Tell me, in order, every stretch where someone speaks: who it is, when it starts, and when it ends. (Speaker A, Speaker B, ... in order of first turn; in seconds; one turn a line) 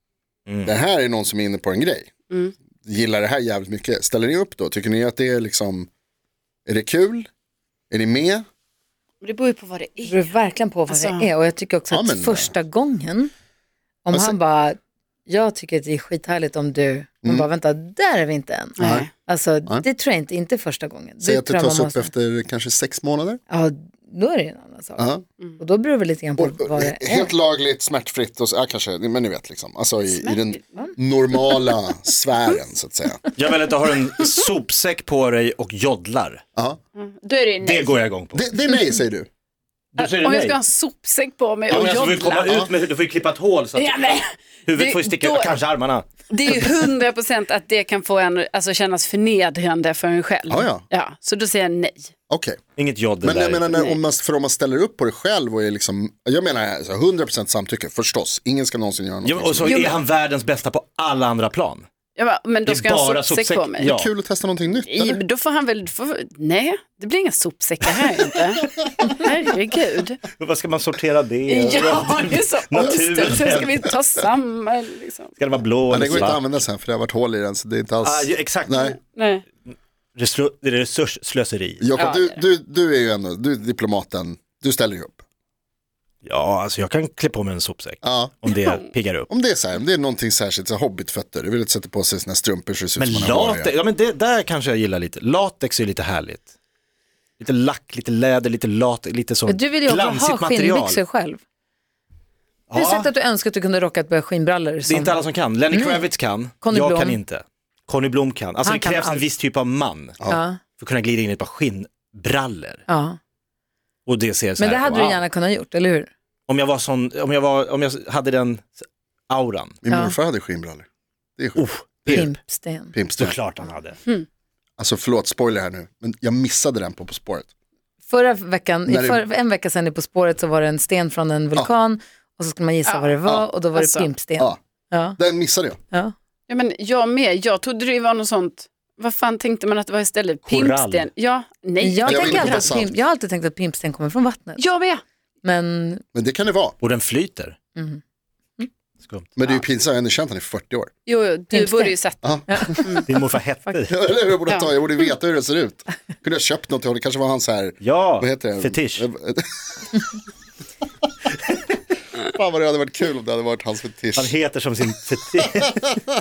Speaker A: 0.6-2.1
Speaker A: 2.8-5.9
Speaker A: 6.7-7.3
Speaker A: 7.9-8.4
Speaker B: 9.2-10.3
Speaker C: 10.0-13.3
Speaker B: 10.9-11.2
Speaker A: 11.9-12.6
Speaker C: 14.0-22.1
Speaker B: 18.8-19.1
Speaker A: 18.8-19.1
Speaker A: 21.2-23.4
Speaker C: 23.5-25.1
Speaker C: 25.6-27.3
Speaker A: 26.4-33.2
Speaker B: 30.1-30.8
Speaker D: 33.4-36.4
Speaker B: 37.0-38.0
Speaker D: 37.6-38.4
Speaker A: 38.3-39.3
Speaker D: 39.9-40.6
Speaker B: 40.0-42.6
Speaker D: 41.7-46.7
Speaker B: 43.8-45.6
Speaker B: 46.3-52.1
Speaker A: 50.5-50.8
Speaker A: 52.3-52.6
Speaker D: 52.8-53.8
Speaker A: 53.2-59.9
Speaker D: 59.2-61.8
Speaker B: 59.6-59.9
Speaker B: 62.2-63.9
Speaker D: 62.6-64.1
Speaker A: 63.8-65.2
Speaker B: 64.8-70.2
Speaker D: 70.4-73.8
Speaker B: 71.5-75.3
Speaker D: 75.4-76.6
Speaker A: 75.9-79.0
Speaker D: 78.0-78.9
Speaker B: 79.0-79.4
Speaker D: 80.2-81.9
Speaker A: 81.8-85.2
Speaker B: 82.0-82.4
Speaker D: 86.2-89.3
Speaker A: 88.0-88.4
Speaker A: 89.3-93.7
Speaker D: 93.0-96.5
Speaker D: 97.4-101.0
Speaker C: 99.5-101.4
Speaker D: 102.7-103.1
Speaker C: 102.7-105.2
Speaker D: 104.8-110.2
Speaker C: 105.7-106.1
Speaker C: 106.6-107.2
Speaker C: 108.6-109.2
Speaker C: 110.3-110.6
Speaker D: 110.8-112.8
Speaker C: 112.9-113.2
Speaker D: 114.1-115.2
Speaker C: 114.6-116.1
Speaker D: 116.5-119.8
Speaker A: 119.8-120.8
Speaker C: 119.9-120.2
Speaker A: 121.4-122.3
Speaker D: 121.5-122.3
Speaker C: 122.1-122.9
Speaker A: 122.9-123.3
Speaker D: 123.2-124.0
Speaker A: 124.8-127.5
Speaker C: 128.1-135.2
Speaker A: 128.9-129.2
Speaker B: 132.8-133.1
Speaker A: 133.2-133.5
Speaker B: 133.7-134.1
Speaker A: 135.2-135.8
Speaker B: 136.5-142.7
Speaker D: 140.4-141.1
Speaker C: 141.8-144.6
Speaker A: 142.0-142.9
Speaker B: 144.6-145.0
Speaker C: 145.4-146.0
Speaker A: 146.1-146.7
Speaker D: 146.8-147.6
Speaker D: 149.0-149.3
Speaker A: 149.4-150.9
Speaker B: 151.1-153.0
Speaker C: 151.5-151.9
Speaker A: 152.2-153.0
Speaker C: 152.5-153.0
Speaker D: 153.1-153.9
Speaker A: 153.9-159.9
Speaker D: 157.8-159.0
Speaker A: 162.2-164.3
Speaker D: 164.2-165.9